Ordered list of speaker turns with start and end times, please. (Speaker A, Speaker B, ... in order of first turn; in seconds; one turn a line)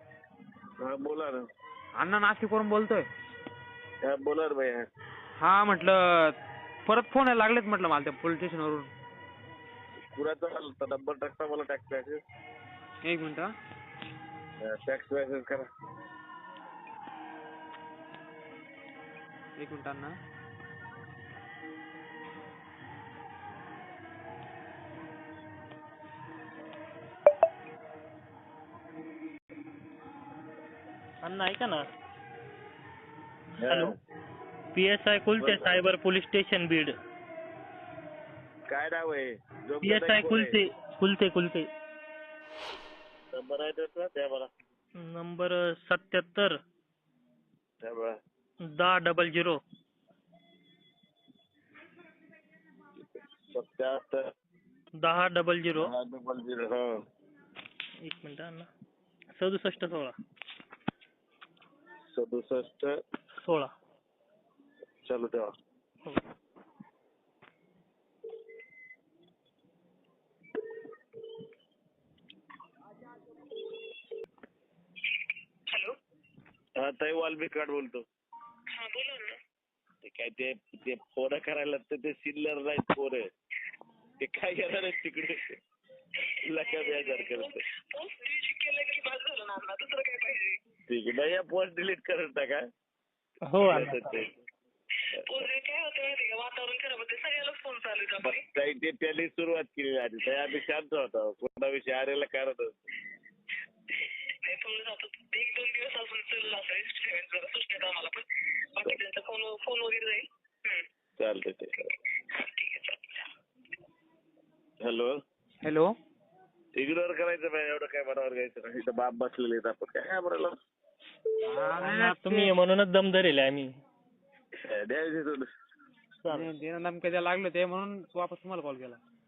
Speaker A: 0.8-1.4
Speaker B: 2.0-3.0
Speaker A: 4.0-4.8
Speaker B: 5.4-6.3
Speaker B: 6.8-8.9
Speaker A: 10.1-12.2
Speaker B: 13.0-13.5
Speaker A: 14.6-15.7
Speaker B: 19.6-20.2
Speaker C: 31.2-31.9
Speaker A: 33.6-33.9
Speaker C: 33.6-34.0
Speaker C: 34.7-37.0
Speaker A: 35.4-35.8
Speaker A: 38.7-40.6
Speaker C: 39.8-41.7
Speaker A: 43.3-44.5
Speaker C: 45.0-46.6
Speaker A: 47.8-48.1
Speaker C: 48.6-49.6
Speaker A: 53.5-54.3
Speaker C: 55.0-55.9
Speaker A: 55.7-56.9
Speaker C: 58.0-58.7
Speaker C: 59.3-60.2
Speaker A: 62.1-62.9
Speaker C: 63.4-63.7
Speaker A: 65.0-65.5
Speaker A: 76.8-78.0
Speaker D: 78.7-79.4
Speaker A: 80.0-83.2
Speaker A: 84.2-85.5
Speaker A: 86.4-87.5
Speaker D: 86.6-90.6
Speaker A: 90.9-92.6
Speaker C: 93.5-94.1
Speaker A: 93.6-94.3
Speaker D: 95.2-98.4
Speaker A: 98.2-102.8
Speaker D: 103.9-110.8
Speaker A: 111.2-111.9
Speaker D: 112.3-113.3
Speaker A: 114.8-115.2
Speaker B: 115.6-115.9
Speaker A: 116.8-120.5
Speaker B: 121.4-122.5
Speaker C: 121.8-123.8
Speaker A: 124.6-125.5
Speaker B: 126.3-129.0